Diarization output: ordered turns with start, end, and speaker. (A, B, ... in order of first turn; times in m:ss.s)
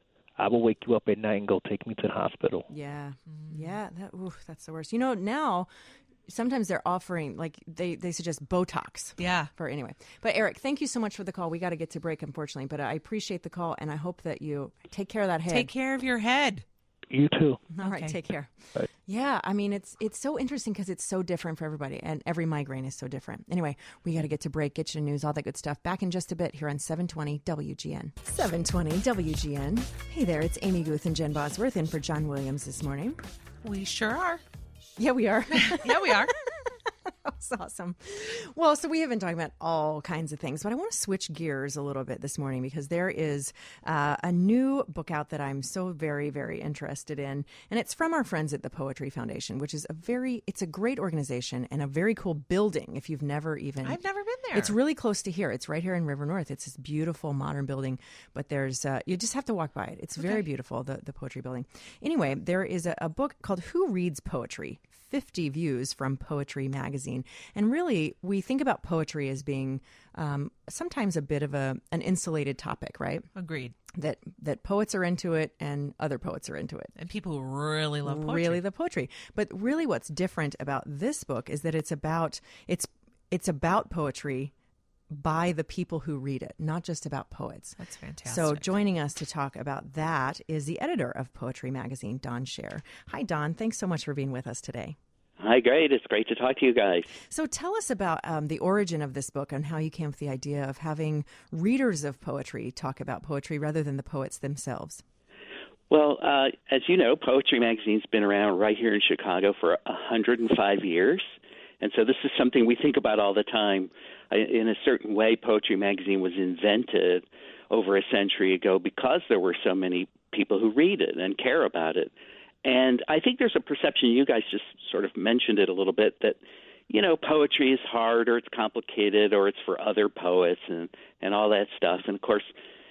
0:00.4-0:02.7 A
0:02.7-0:05.7 B
0:03.3-0:03.7 C
0:06.3-0:15.7 B
0:09.2-0:09.5 C
0:15.5-0:16.6 C
0:17.1-0:17.7 A
0:17.7-0:18.5 B
0:17.8-0:18.2 C
0:19.0-0:33.2 B
0:33.6-0:34.4 C
0:35.0-0:54.0 B
0:35.5-0:36.3 C
0:53.8-0:54.8 C
0:54.5-1:13.3 B
1:00.2-1:00.4 C
1:13.3-1:13.8 C
1:13.9-1:16.9 B
1:17.0-1:18.6 C
1:18.0-1:24.5 B
1:25.1-1:35.0 B
1:27.8-1:28.8 C
1:35.4-1:37.1 D
1:37.3-1:45.0 B
1:45.9-1:51.2 D
1:51.8-2:02.1 D
2:02.6-2:06.4 D
2:06.9-2:12.5 D